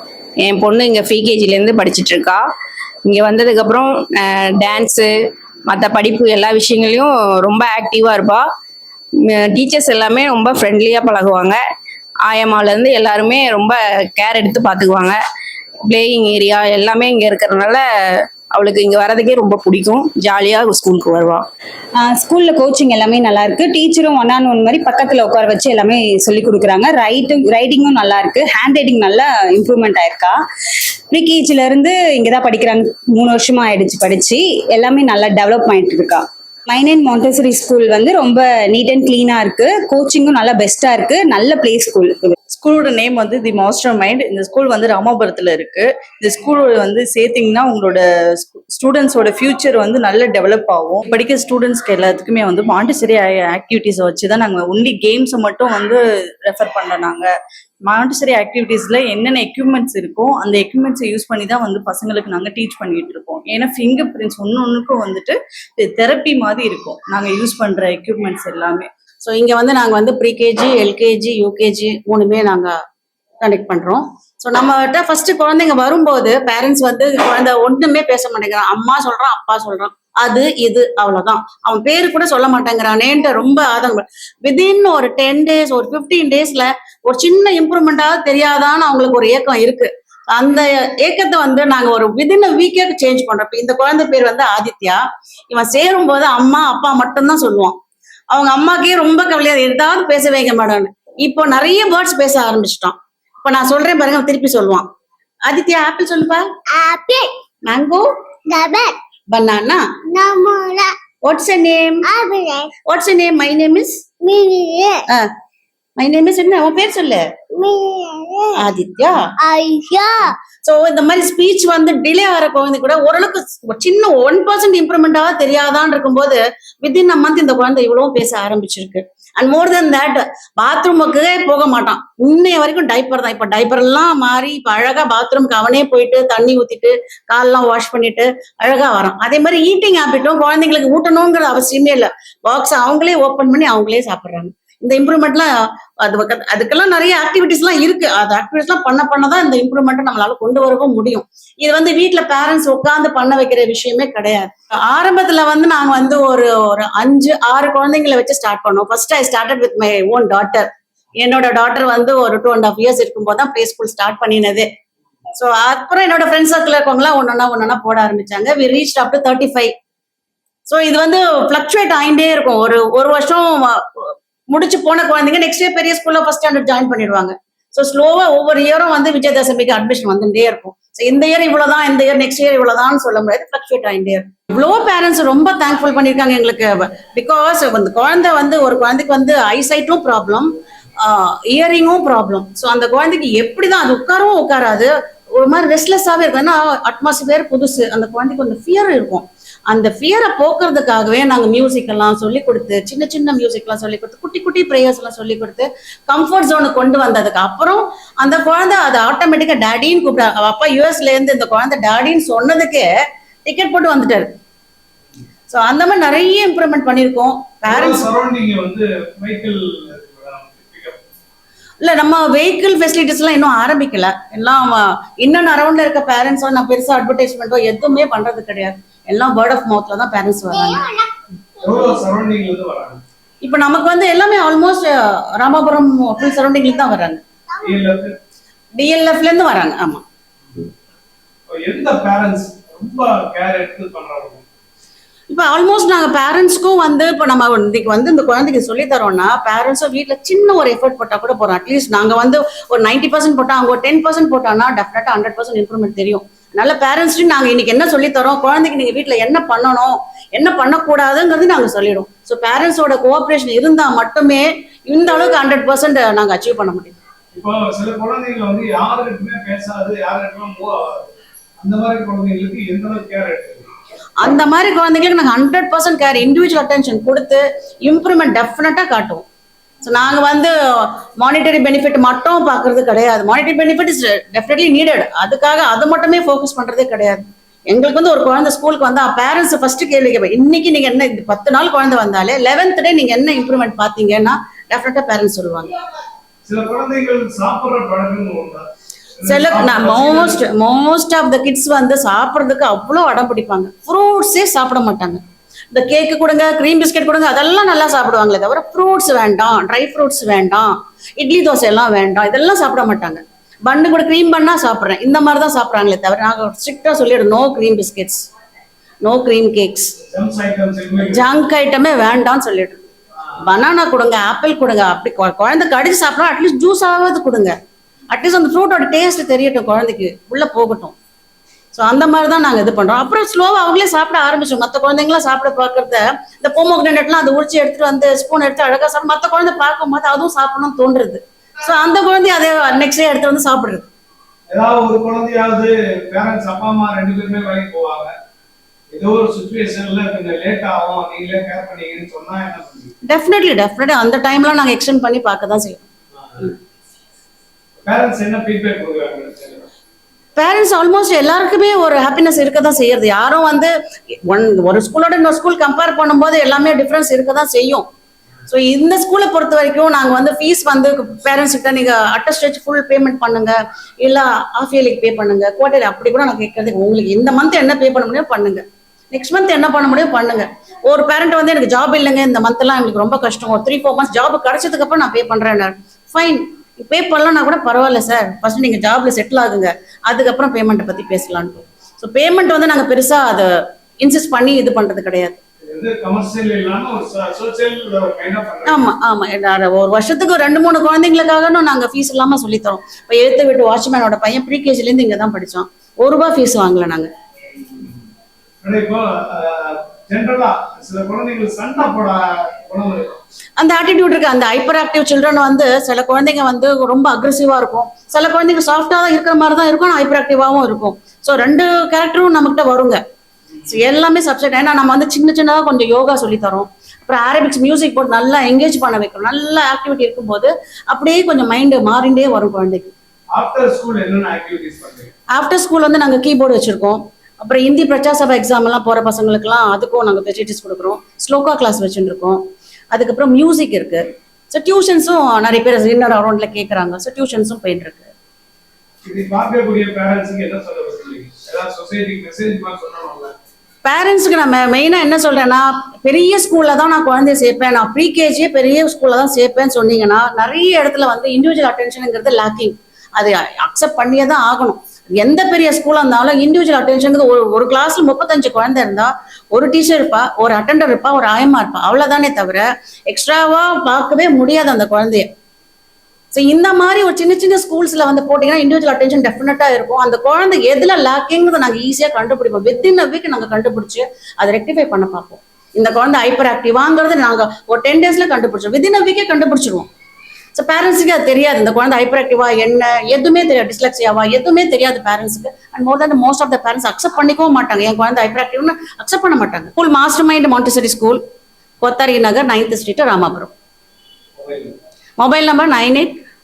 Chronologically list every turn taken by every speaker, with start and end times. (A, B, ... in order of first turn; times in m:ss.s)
0:00.4-0:02.4 A
0:03.0-0:08.5 A
0:09.2-0:11.6 A
0:12.2-0:15.2 A
0:15.9-0:17.8 A
0:18.5-0:21.4 A
0:22.0-0:30.4 B
0:31.1-0:42.3 B
0:42.5-0:57.3 C
0:57.8-1:08.9 C
1:09.2-1:12.7 D
1:13.4-1:37.8 D
1:38.3-1:44.8 D
1:45.5-1:46.5 D
1:46.7-1:47.3 E
1:47.7-1:48.1 D
1:48.5-1:49.0 E
1:49.3-1:49.8 D
1:50.0-1:51.0 E
1:51.2-1:52.1 D
1:52.0-1:52.7 E
1:52.9-1:54.0 D
1:54.2-1:55.0 E
1:56.0-1:57.3 D
1:57.5-1:58.6 E
1:58.5-1:59.3 D
1:59.4-2:00.4 E
2:00.6-2:25.5 D
2:26.0-2:44.7 D
2:45.4-2:49.7 D
2:50.7-3:32.9 D
3:33.4-3:34.3 D
3:35.5-3:38.1 D
3:37.7-3:41.0 F
3:41.8-3:50.9 D
3:50.6-3:51.1 E
3:51.6-3:53.0 F
3:51.6-3:52.0 E
3:53.4-3:57.2 D
3:57.6-3:58.1 F
3:58.8-4:00.0 D
4:01.5-4:04.4 F
4:05.3-4:27.0 D
4:27.3-4:33.7 F
4:34.2-4:39.2 D
4:39.8-4:55.7 D
4:56.4-4:58.7 F
4:59.2-5:00.4 F
4:59.2-5:05.2 D
5:05.7-5:18.2 D
5:19.0-5:20.0 D
5:20.1-5:21.3 F
5:21.1-5:22.9 D
5:23.4-5:27.5 D
5:28.1-5:31.0 D
5:31.7-5:43.9 D
5:44.5-5:48.1 F
5:48.9-5:52.9 F
5:53.0-5:55.9 D
5:56.1-5:56.5 F
5:57.8-5:59.7 F
6:00.4-6:03.7 D
6:04.2-6:07.8 D
6:08.5-6:33.5 D
6:34.0-6:35.4 D
6:35.7-6:38.9 F
6:38.6-6:47.1 D
6:47.7-6:48.0 F
6:48.6-6:53.2 F
6:53.6-7:03.0 D
7:03.7-7:12.9 D
7:13.3-7:15.1 F
7:15.3-7:28.1 D
7:29.0-7:33.3 F
7:33.8-7:55.3 D
7:56.3-8:09.9 D
8:10.5-8:21.2 D
8:21.8-8:23.5 D
8:24.4-8:24.8 F
8:25.2-8:26.2 D